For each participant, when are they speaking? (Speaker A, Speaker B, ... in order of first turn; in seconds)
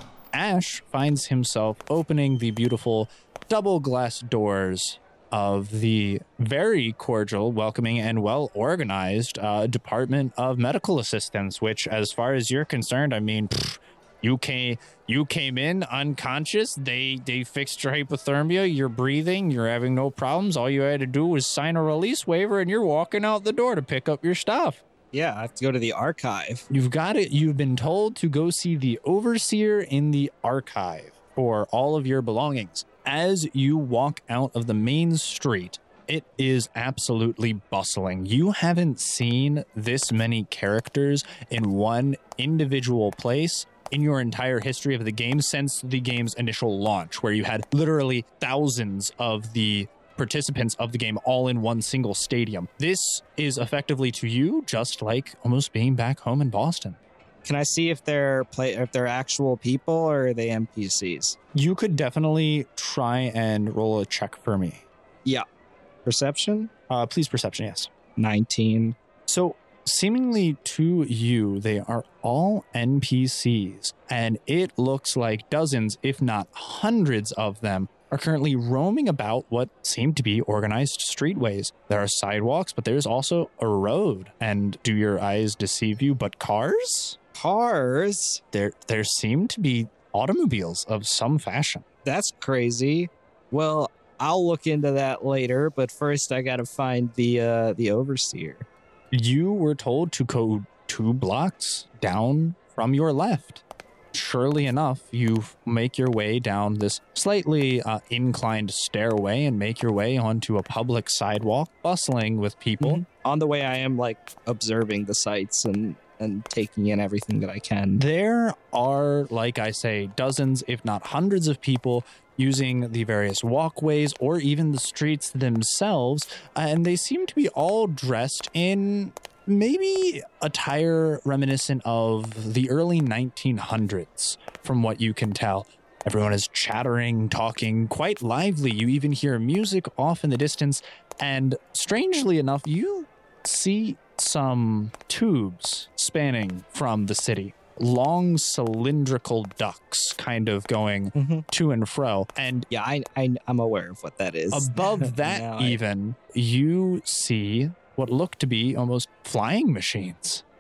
Speaker A: 0.3-24.8, 26.7-57.0, 61.5-64.8, 66.9-67.9, 69.3-87.2, 88.5-91.8, 99.1-103.6, 104.1-113.0, 118.0-152.7, 154.5-160.4
Speaker B: 25.1-26.6, 57.5-61.4, 66.0-66.7, 68.2-69.0, 87.3-88.4, 92.0-98.7, 112.8-118.0, 151.2-151.4, 152.7-155.8